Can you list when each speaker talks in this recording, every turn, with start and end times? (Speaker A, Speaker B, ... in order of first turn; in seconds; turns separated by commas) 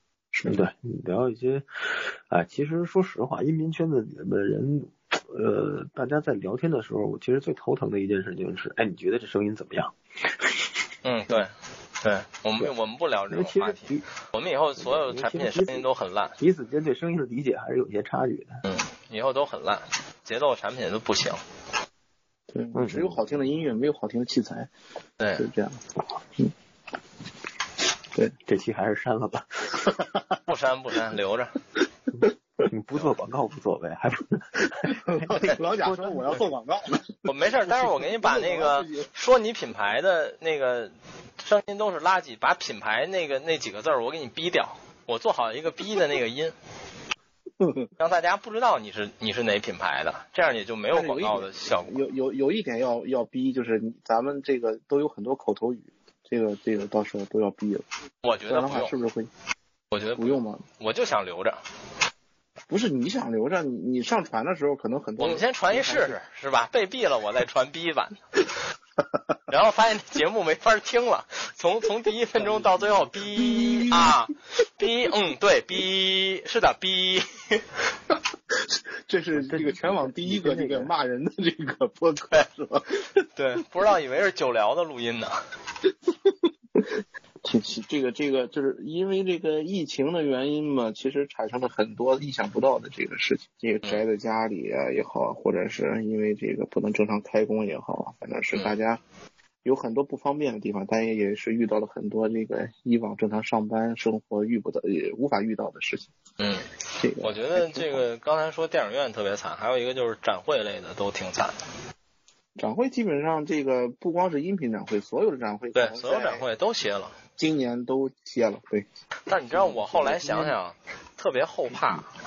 Speaker A: 0.3-0.6, Speaker B: 0.5-10.8, Speaker C: 11.0-16.4, Speaker B: 13.3-14.1, Speaker B: 14.8-15.9, Speaker B: 16.4-18.6, Speaker C: 18.6-21.4, Speaker A: 22.5-24.7, Speaker B: 22.8-23.3, Speaker C: 25.2-25.5, Speaker A: 25.4-25.8, Speaker B: 28.4-29.9, Speaker C: 30.5-31.6, Speaker B: 32.6-36.4, Speaker A: 34.9-39.1, Speaker C: 37.3-46.5, Speaker A: 47.6-47.9, Speaker C: 48.0-52.0, Speaker A: 50.9-57.8, Speaker C: 58.2-59.0, Speaker A: 58.5-59.3, Speaker C: 59.9-61.6, Speaker A: 60.2-60.6, Speaker A: 62.7-66.2, Speaker C: 65.2-68.2, Speaker C: 69.5-77.6, Speaker A: 73.4-74.2, Speaker A: 78.7-83.2, Speaker B: 79.3-80.9, Speaker C: 83.4-85.4, Speaker A: 86.3-86.9, Speaker A: 87.4-99.0, Speaker A: 99.6-106.1, Speaker C: 106.4-111.6, Speaker A: 107.0-108.0, Speaker A: 112.6-116.5, Speaker C: 115.8-117.2, Speaker A: 117.4-118.9, Speaker C: 119.3-122.1, Speaker A: 119.5-120.5